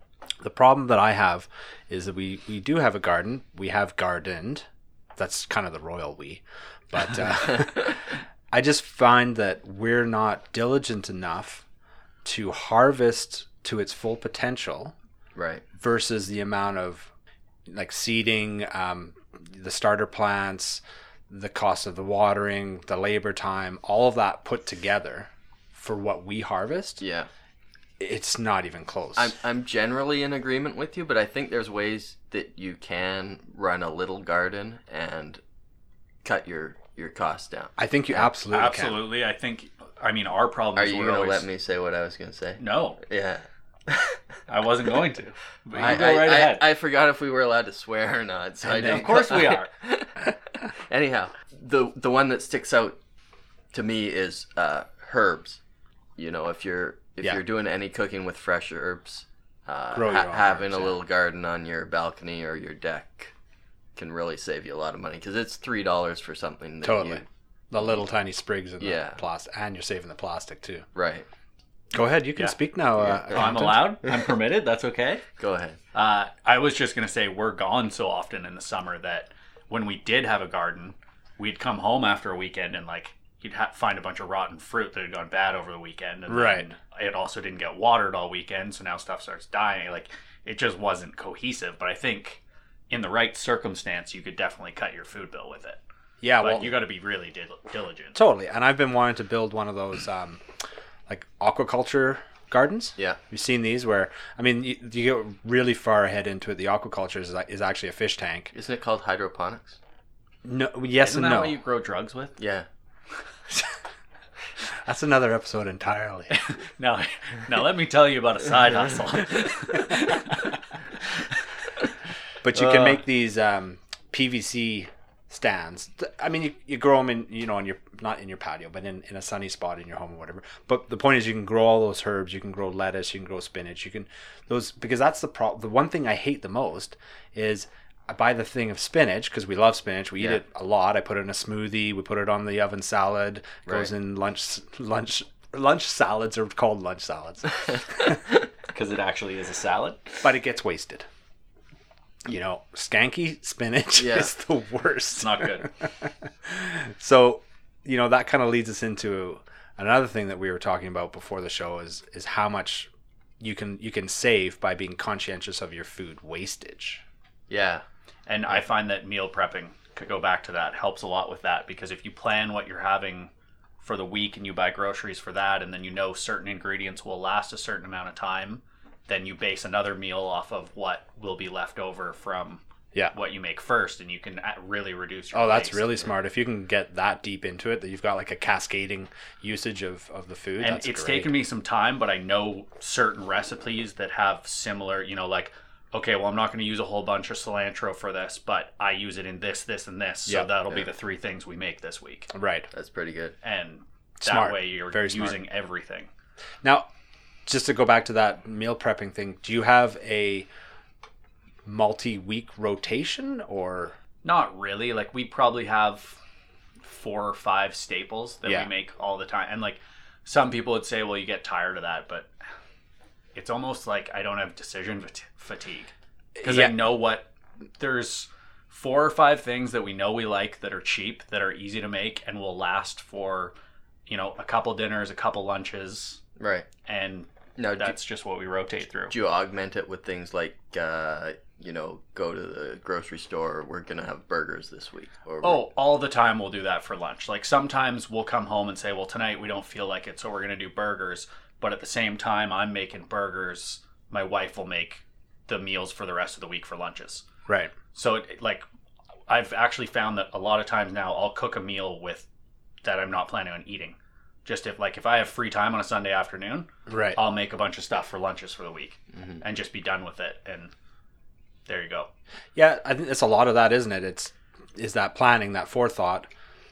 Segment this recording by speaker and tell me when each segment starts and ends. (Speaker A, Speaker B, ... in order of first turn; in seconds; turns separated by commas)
Speaker A: 0.4-11.6, Speaker A: 12.2-14.9, Speaker B: 15.3-15.6, Speaker A: 15.8-17.1, Speaker A: 17.7-27.0, Speaker B: 27.0-27.3, Speaker A: 28.0-29.3, Speaker B: 29.1-35.4, Speaker B: 36.2-38.3, Speaker A: 37.8-39.0, Speaker C: 38.5-41.5, Speaker B: 40.7-44.2, Speaker C: 42.6-43.0, Speaker C: 44.5-46.7, Speaker B: 45.8-53.0, Speaker A: 48.7-49.3, Speaker C: 48.7-49.7, Speaker B: 53.7-55.6, Speaker B: 56.2-63.3, Speaker A: 59.9-60.9, Speaker B: 64.0-67.2, Speaker A: 66.8-70.8, Speaker B: 68.8-69.2, Speaker B: 70.9-71.3, Speaker A: 71.9-73.9, Speaker B: 73.0-73.3, Speaker C: 73.3-75.2, Speaker B: 75.4-75.8, Speaker C: 75.9-95.8, Speaker A: 86.3-86.7, Speaker A: 96.2-96.7, Speaker C: 96.4-98.2, Speaker A: 98.1-100.4, Speaker A: 101.1-108.5, Speaker B: 108.5-109.8, Speaker A: 110.4-111.6, Speaker C: 111.0-112.4, Speaker B: 112.4-112.7, Speaker A: 114.8-116.4, Speaker C: 116.3-120.6, Speaker A: 122.4-148.2, Speaker C: 122.5-123.0, Speaker C: 148.7-150.2, Speaker A: 150.2-151.1, Speaker A: 152.2-167.0, Speaker B: 154.0-154.3, Speaker C: 155.2-155.7, Speaker B: 167.5-167.8, Speaker C: 168.3-186.1, Speaker A: 185.3-191.3, Speaker C: 190.6-202.3, Speaker A: 202.3-202.7, Speaker B: 202.7-203.3, Speaker C: 203.4-206.1, Speaker A: 204.2-205.4, Speaker A: 207.4-210.5, Speaker A: 211.6-213.9, Speaker C: 214.2-216.2, Speaker C: 216.8-222.3, Speaker A: 218.4-218.7, Speaker C: 223.3-225.9, Speaker A: 226.4-226.8, Speaker C: 226.4-233.5, Speaker C: 234.1-236.2, Speaker B: 236.4-236.7, Speaker C: 236.8-239.1, Speaker B: 237.6-237.9, Speaker B: 239.1-245.6, Speaker C: 245.4-257.2, Speaker A: 257.5-257.7, Speaker C: 257.9-258.6, Speaker C: 259.3-262.2, Speaker C: 262.8-270.7, Speaker A: 266.9-267.2, Speaker C: 271.7-272.1, Speaker A: 272.6-276.3